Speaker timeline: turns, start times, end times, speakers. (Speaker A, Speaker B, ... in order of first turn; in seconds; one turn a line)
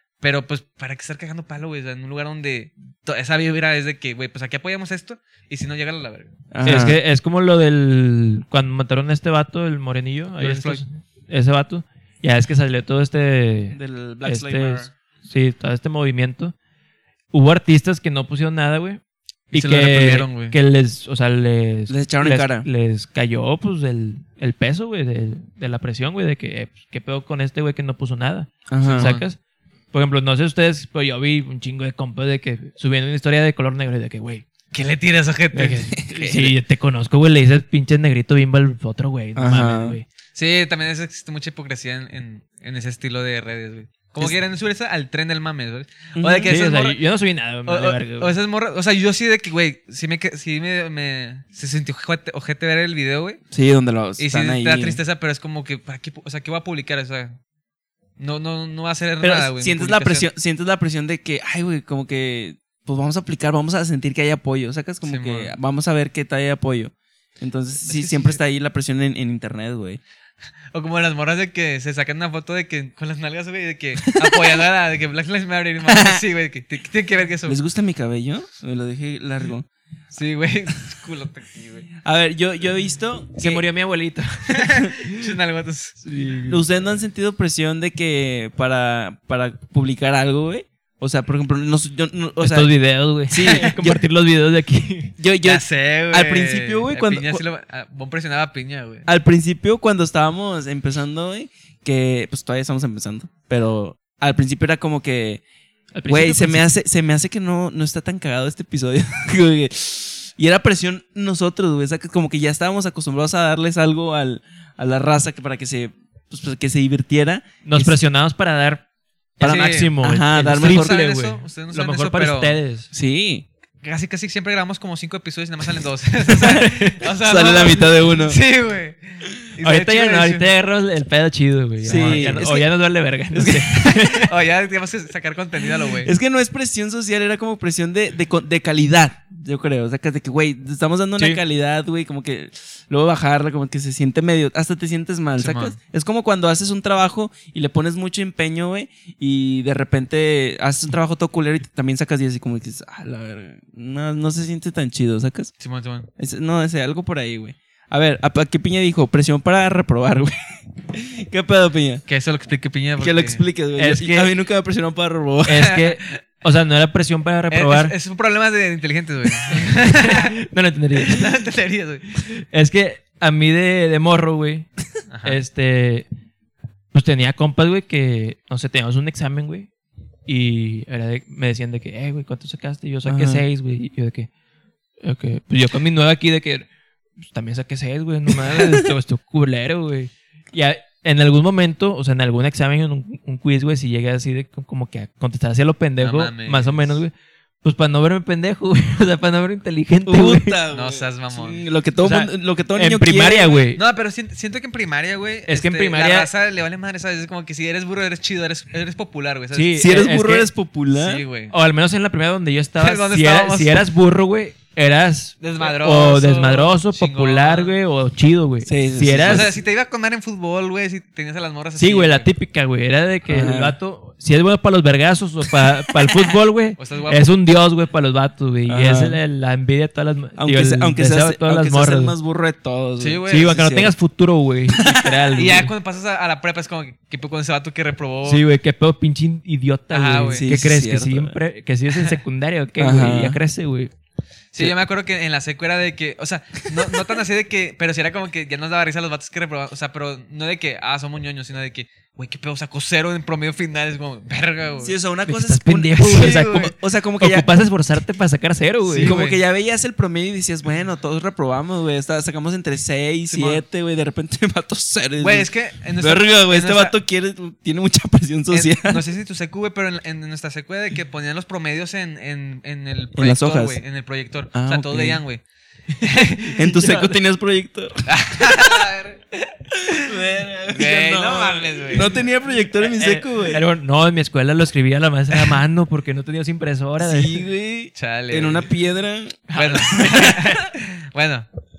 Speaker A: 0.2-6.3
Speaker B: 6.5-7.0
Speaker C: 6.6-16.5
Speaker A: 10.4-10.8
Speaker B: 13.7-14.9
Speaker C: 17.3-19.0
Speaker C: 19.5-29.4
Speaker A: 19.5-20.6
Speaker B: 21.9-22.7
Speaker B: 28.7-29.1
Speaker A: 28.8-29.2
Speaker C: 29.9-34.4
Speaker A: 34.7-35.9
Speaker C: 35.5-40.0
Speaker B: 35.9-36.5
Speaker B: 39.4-40.0
Speaker A: 40.3-47.0
Speaker B: 46.1-46.6
Speaker C: 46.5-48.3
Speaker A: 47.6-53.4
Speaker B: 53.5-55.0
Speaker A: 54.2-57.4
Speaker A: 58.2-60.3
Speaker B: 59.2-70.0
Speaker A: 65.0-65.5
Speaker A: 67.8-68.4
Speaker A: 70.7-77.6
Speaker B: 74.2-74.6
Speaker B: 75.8-76.2
Speaker B: 77.5-79.7
Speaker A: 80.1-81.9
Speaker B: 82.0-83.6
Speaker C: 83.4-85.2
Speaker A: 84.5-86.0
Speaker C: 86.0-86.6
Speaker B: 86.5-92.7
Speaker C: 92.4-95.1
Speaker B: 93.3-94.0
Speaker A: 93.4-93.7
Speaker B: 95.2-97.4
Speaker A: 95.4-99.1
Speaker B: 99.0-105.4
Speaker C: 105.9-106.7
Speaker B: 106.1-118.0
Speaker C: 117.6-118.8
Speaker C: 119.4-122.9
Speaker B: 119.4-121.0
Speaker A: 119.4-122.6
Speaker B: 122.9-123.5
Speaker A: 123.8-130.5
Speaker B: 126.3-128.4
Speaker C: 126.4-127.0
Speaker C: 129.6-134.3
Speaker A: 131.8-132.4
Speaker B: 131.8-132.7
Speaker B: 133.3-133.7
Speaker A: 133.9-136.1
Speaker B: 135.9-155.5
Speaker A: 145.4-145.8
Speaker A: 155.6-156.1
Speaker B: 156.2-160.3
Speaker B: 160.9-162.0
Speaker A: 162.1-163.4
Speaker B: 163.0-165.7
Speaker C: 163.8-164.3
Speaker C: 165.4-167.9
Speaker A: 167.5-170.3
Speaker C: 169.5-171.4
Speaker A: 171.0-172.1
Speaker C: 172.2-174.7
Speaker A: 175.1-175.4
Speaker C: 175.2-176.1
Speaker C: 176.9-179.7
Speaker C: 180.3-184.3
Speaker B: 183.0-183.4
Speaker C: 185.0-186.7
Speaker C: 187.2-200.6
Speaker B: 188.3-188.9
Speaker A: 196.0-197.0
Speaker B: 200.1-203.6
Speaker A: 200.7-201.6
Speaker C: 202.0-203.8
Speaker A: 203.7-210.0
Speaker C: 205.5-206.3
Speaker C: 209.5-210.5
Speaker B: 209.8-211.2
Speaker A: 210.9-211.5
Speaker C: 211.5-219.5
Speaker A: 212.8-213.9
Speaker A: 215.4-217.7
Speaker B: 218.6-219.6
Speaker A: 219.2-222.3
Speaker C: 221.8-232.1
Speaker B: 223.3-223.8
Speaker A: 226.8-227.4
Speaker B: 228.7-229.2
Speaker B: 230.4-233.9
Speaker A: 233.0-233.6
Speaker C: 233.3-235.7
Speaker B: 234.7-235.3
Speaker A: 235.3-238.4
Speaker C: 238.2-243.9
Speaker A: 239.9-240.5
Speaker B: 240.3-241.4
Speaker A: 241.9-242.2
Speaker B: 242.8-243.4
Speaker A: 244.5-254.9
Speaker B: 254.8-257.5
Speaker C: 255.2-259.2
Speaker A: 256.0-256.7
Speaker A: 258.9-259.4
Speaker B: 258.9-269.0
Speaker A: 263.3-263.6
Speaker A: 265.2-266.9
Speaker A: 268.5-275.4
Speaker B: 273.2-273.8
Speaker B: 274.5-275.2
Speaker C: 275.9-277.1
Speaker A: 276.0-276.6
Speaker B: 276.5-278.0
Speaker A: 278.1-279.2
Speaker B: 279.8-283.6
Speaker A: 280.7-282.2
Speaker C: 282.8-287.4
Speaker B: 287.0-290.7
Speaker A: 287.9-288.7
Speaker A: 289.5-291.5